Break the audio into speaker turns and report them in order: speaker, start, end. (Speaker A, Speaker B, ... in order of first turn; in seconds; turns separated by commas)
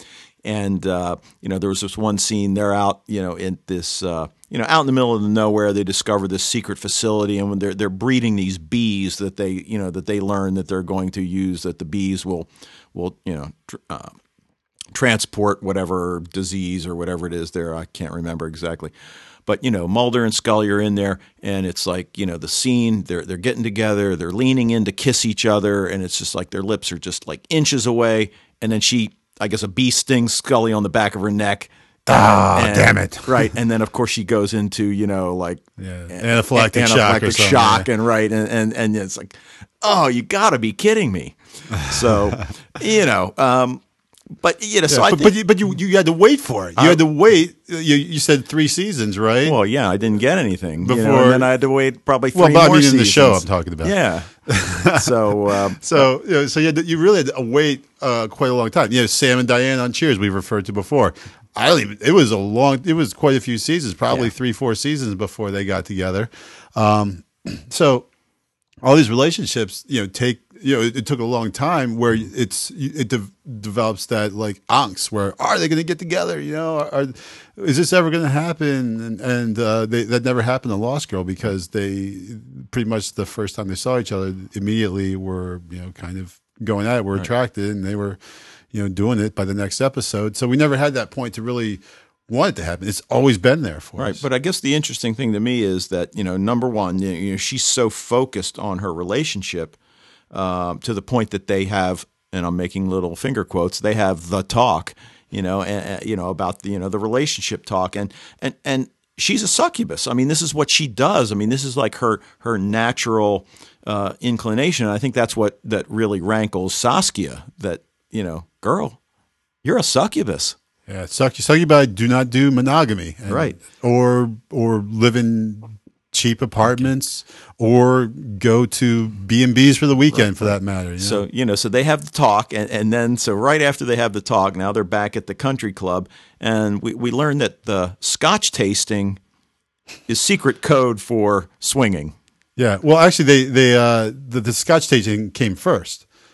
Speaker A: 0.4-14.2, Speaker A: 14.9-18.9, Speaker A: 19.4-31.7, Speaker B: 32.1-33.5, Speaker A: 32.5-43.8, Speaker B: 35.8-37.9, Speaker B: 41.8-42.4, Speaker A: 44.4-45.3, Speaker B: 44.9-49.5, Speaker A: 46.8-47.0, Speaker A: 49.4-54.3, Speaker B: 50.8-51.5, Speaker B: 52.3-68.1, Speaker A: 54.9-56.0, Speaker B: 68.8-88.2, Speaker B: 88.7-94.2, Speaker A: 94.0-99.8, Speaker A: 100.3-119.0, Speaker A: 119.6-120.5, Speaker B: 120.9-131.2, Speaker A: 123.3-123.6, Speaker A: 130.1-139.2, Speaker A: 140.1-142.1, Speaker B: 142.6-146.0